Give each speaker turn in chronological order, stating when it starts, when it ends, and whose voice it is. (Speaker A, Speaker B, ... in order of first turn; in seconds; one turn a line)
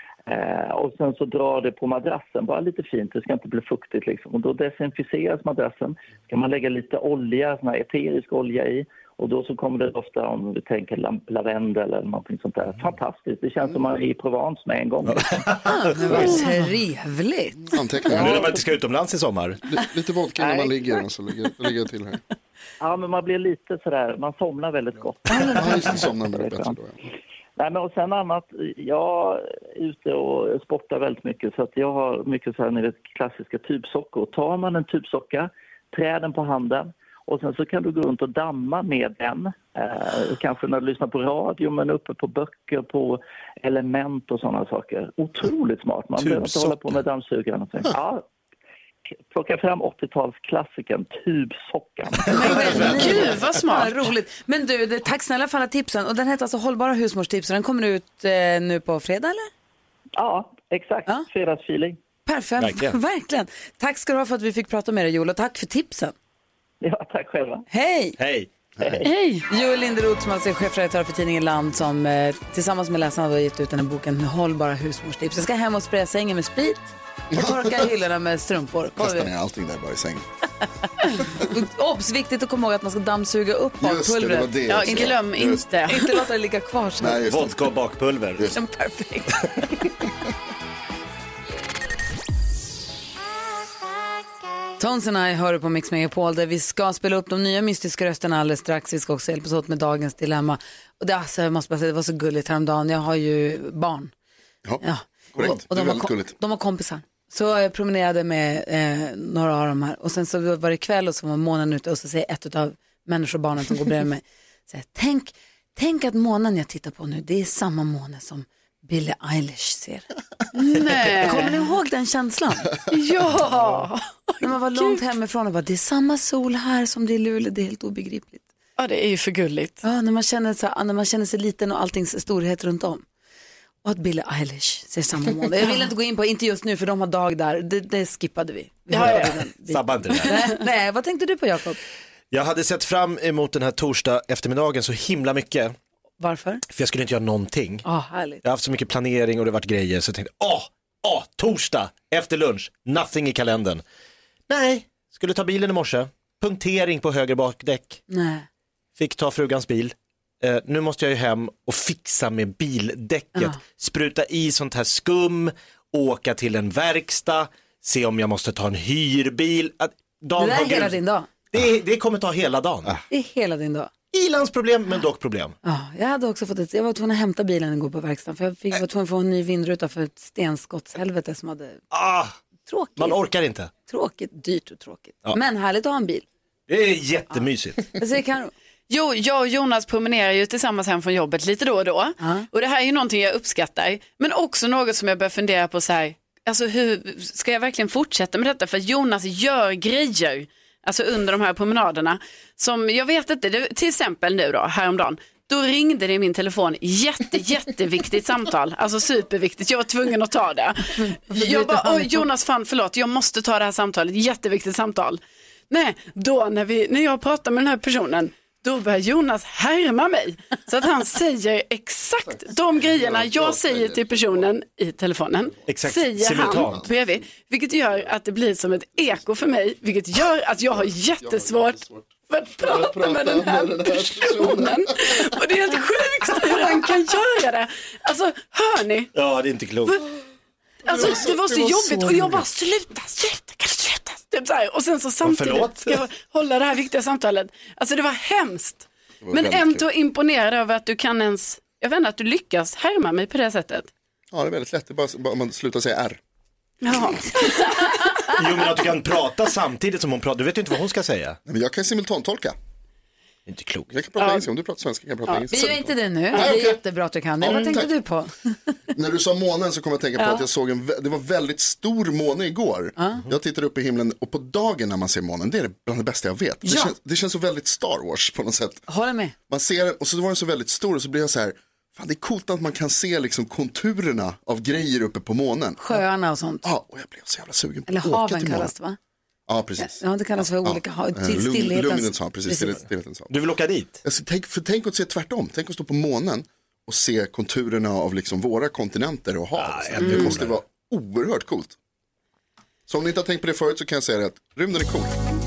Speaker A: 0.3-15.4
Speaker B: 15.1-16.4
Speaker C: 15.7-17.8
Speaker D: 17.7-18.5
Speaker B: 18.1-19.6
Speaker D: 19.7-22.2
Speaker A: 20.4-20.8
Speaker A: 22.8-26.8
Speaker D: 25.4-27.0
Speaker A: 27.6-48.2
Speaker B: 46.2-47.0
Speaker A: 49.3-52.9
Speaker C: 52.3-59.5
Speaker B: 52.4-53.2
Speaker E: 52.9-54.0
Speaker A: 60.2-62.0
Speaker C: 62.3-66.1
Speaker B: 62.6-63.0
Speaker A: 66.8-67.7
Speaker C: 67.7-68.2
Speaker B: 68.2-68.5
Speaker D: 68.8-69.0
Speaker C: 69.0-79.3
Speaker D: 77.3-77.9
Speaker D: 79.0-80.3
Speaker C: 81.2-85.1
Speaker D: 83.8-85.7
Speaker E: 84.7-86.2
Speaker C: 85.9-87.3
Speaker D: 87.0-87.6
Speaker B: 87.3-88.5
Speaker C: 88.5-89.6
Speaker C: 94.8-104.1
Speaker C: 104.8-120.1
Speaker D: 105.3-106.3
Speaker E: 120.5-121.5
Speaker C: 121.2-122.7
Speaker E: 122.9-125.0
Speaker C: 124.4-128.4
Speaker E: 128.8-129.8
Speaker C: 129.8-133.1
Speaker C: 133.8-141.8
Speaker E: 138.9-139.4
Speaker B: 138.9-140.6
Speaker B: 142.3-145.7
Speaker C: 146.2-146.6
Speaker B: 146.7-147.8
Speaker C: 147.8-148.4
Speaker B: 148.4-153.8
Speaker B: 154.5-158.0
Speaker C: 158.1-158.5
Speaker B: 159.0-171.0
Speaker C: 170.4-171.3
Speaker B: 171.5-173.0
Speaker C: 173.1-173.9
Speaker B: 174.1-175.6
Speaker C: 175.6-181.8
Speaker B: 181.9-182.3
Speaker C: 182.7-183.2
Speaker B: 183.0-183.7
Speaker C: 183.9-186.2
Speaker B: 186.7-187.9
Speaker C: 188.0-188.5
Speaker E: 188.9-239.1
Speaker C: 192.2-192.5
Speaker C: 210.9-212.3
Speaker D: 222.8-224.5
Speaker B: 225.7-226.9
Speaker D: 226.4-226.9
Speaker D: 231.2-235.3
Speaker B: 239.2-240.0
Speaker D: 240.8-242.4
Speaker E: 240.8-253.9
Speaker B: 245.2-246.0
Speaker D: 249.2-249.9
Speaker D: 254.3-256.2
Speaker E: 256.8-258.1
Speaker B: 258.3-261.4
Speaker D: 261.5-262.6
Speaker B: 263.5-263.9
Speaker D: 263.9-266.8
Speaker C: 265.5-268.5
Speaker D: 267.4-267.9
Speaker D: 268.9-278.9
Speaker C: 270.2-270.4
Speaker C: 273.0-273.2
Speaker C: 276.6-276.9
Speaker C: 278.9-279.3
Speaker D: 279.5-286.0
Speaker C: 285.8-286.6
Speaker D: 286.6-288.7
Speaker C: 287.9-289.0
Speaker D: 289.5-293.3
Speaker C: 289.8-292.8
Speaker B: 293.3-294.0
Speaker D: 294.0-301.8
Speaker B: 299.6-300.6
Speaker D: 302.9-305.1